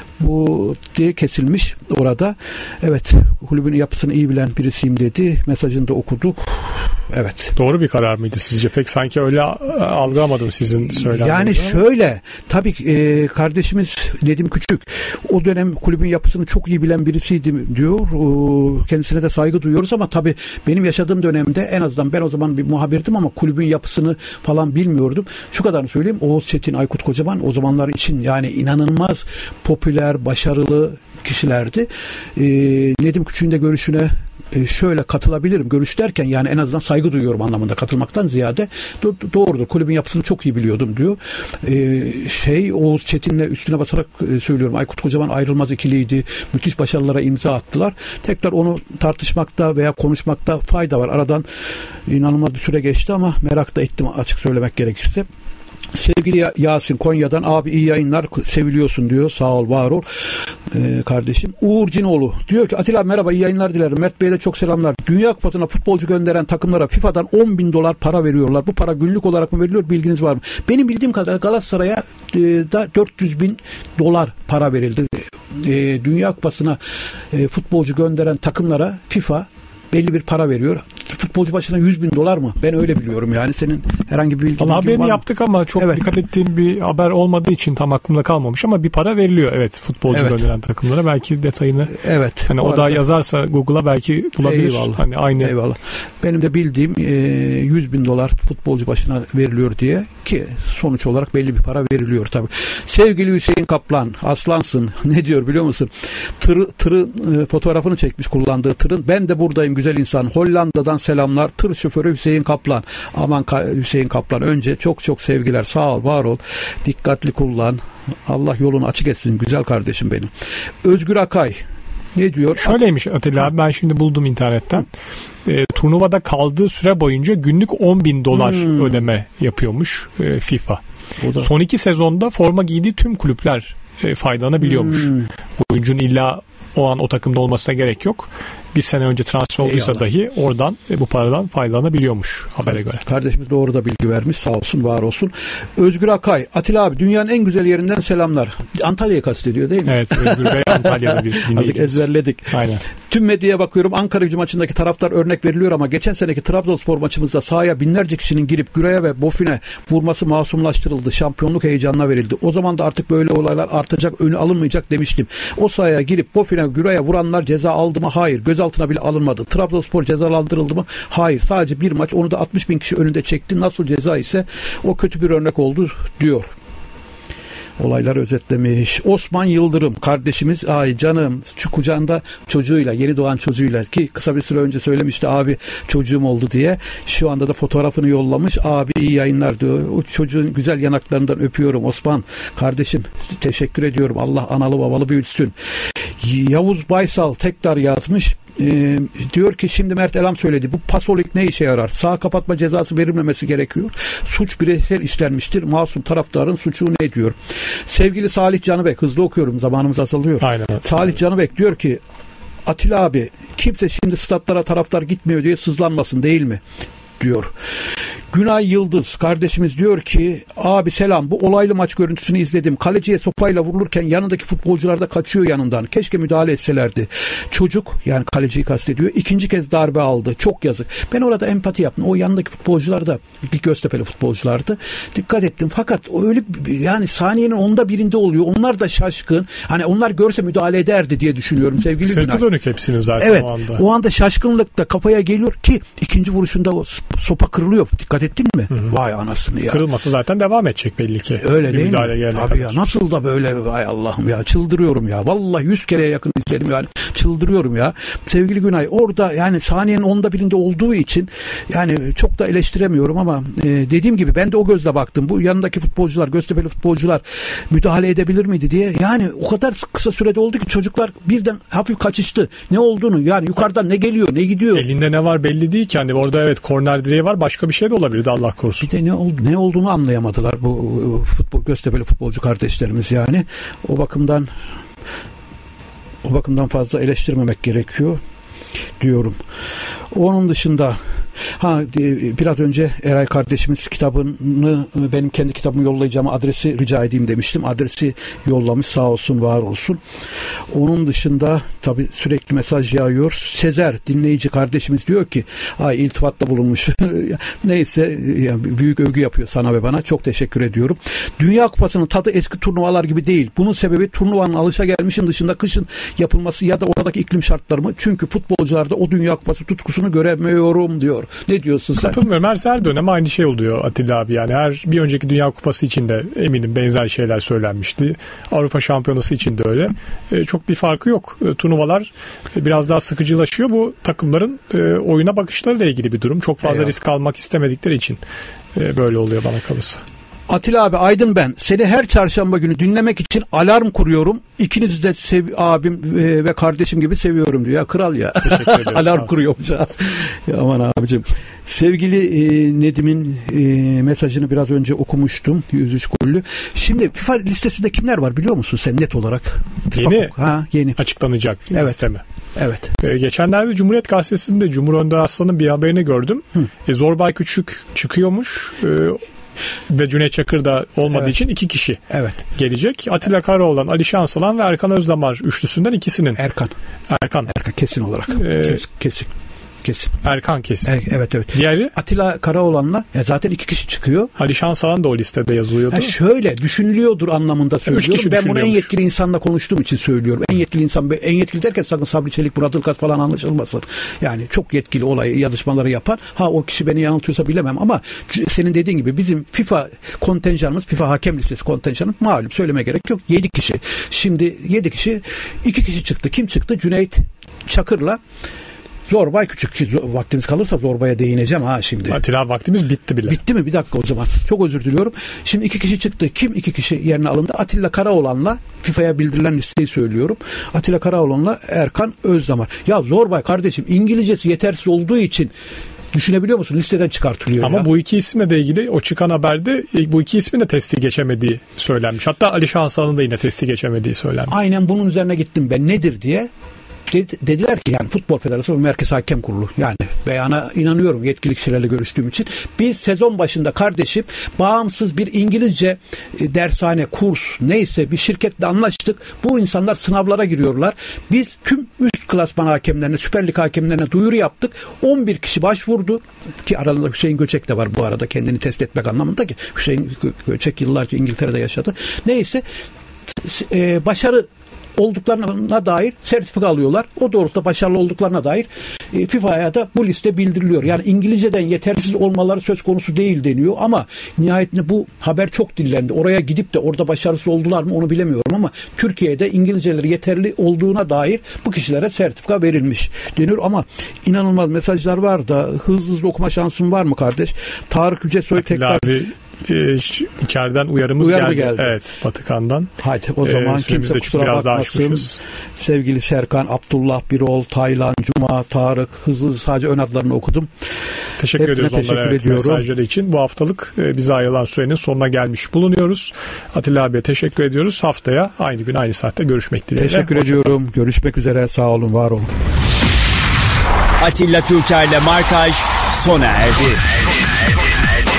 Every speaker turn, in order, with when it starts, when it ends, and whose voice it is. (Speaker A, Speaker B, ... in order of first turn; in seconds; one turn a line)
Speaker A: 0.2-7.5
Speaker B: 7.6-11.8
Speaker A: 10.9-51.5
Speaker A: 52.1-55.3
Speaker A: 55.9-76.8
Speaker A: 77.3-85.2
Speaker B: 84.6-95.5
Speaker A: 85.8-86.0
Speaker A: 90.1-90.5
Speaker A: 91.9-93.0
Speaker A: 94.4-120.3
Speaker A: 120.8-121.6
Speaker A: 122.2-122.8
Speaker B: 122.6-124.9
Speaker B: 125.5-130.8
Speaker A: 128.3-129.0
Speaker A: 131.2-131.5
Speaker B: 131.4-143.0
Speaker A: 134.6-135.3
Speaker A: 139.6-140.0
Speaker A: 143.0-176.5
Speaker B: 149.8-152.8
Speaker A: 177.8-212.0
Speaker B: 210.4-210.9
Speaker A: 212.7-216.6
Speaker A: 217.2-217.5
Speaker A: 218.3-242.5
Speaker B: 242.1-243.8
Speaker A: 243.2-249.8
Speaker B: 249.7-252.8
Speaker A: 251.4-274.9
Speaker B: 274.7-278.9
Speaker A: 278.8-284.5
Speaker A: 286.2-288.2
Speaker A: 289.0-289.4
Speaker A: 290.1-291.0
Speaker A: 291.5-300.0
Speaker A: 300.7-322.2
Speaker B: 322.0-338.2
Speaker A: 336.6-336.9
Speaker B: 338.8-340.0
Speaker A: 340.5-361.0
Speaker B: 348.4-349.4
Speaker B: 359.9-360.4
Speaker B: 361.0-362.2
Speaker A: 361.7-362.0
Speaker A: 362.6-362.9
Speaker B: 363.0-369.2
Speaker B: 369.9-376.4
Speaker A: 372.1-372.4
Speaker A: 376.4-376.7
Speaker B: 377.1-377.5
Speaker A: 377.5-379.3
Speaker B: 378.3-378.8
Speaker A: 379.8-380.1
Speaker B: 380.2-380.9
Speaker A: 380.9-384.3
Speaker B: 381.5-381.9
Speaker B: 384.4-386.1
Speaker A: 385.9-408.2
Speaker B: 387.9-388.9
Speaker A: 409.1-412.2
Speaker B: 412.1-413.4
Speaker A: 413.3-425.5
Speaker A: 426.1-427.9
Speaker B: 427.6-434.6
Speaker A: 434.5-436.5
Speaker A: 437.1-462.6
Speaker A: 463.3-489.1
Speaker B: 488.6-492.9
Speaker A: 491.2-492.0
Speaker A: 493.0-500.7
Speaker B: 493.4-495.4
Speaker B: 501.4-510.8
Speaker A: 501.6-502.9
Speaker A: 510.0-512.5
Speaker C: 514.2-517.0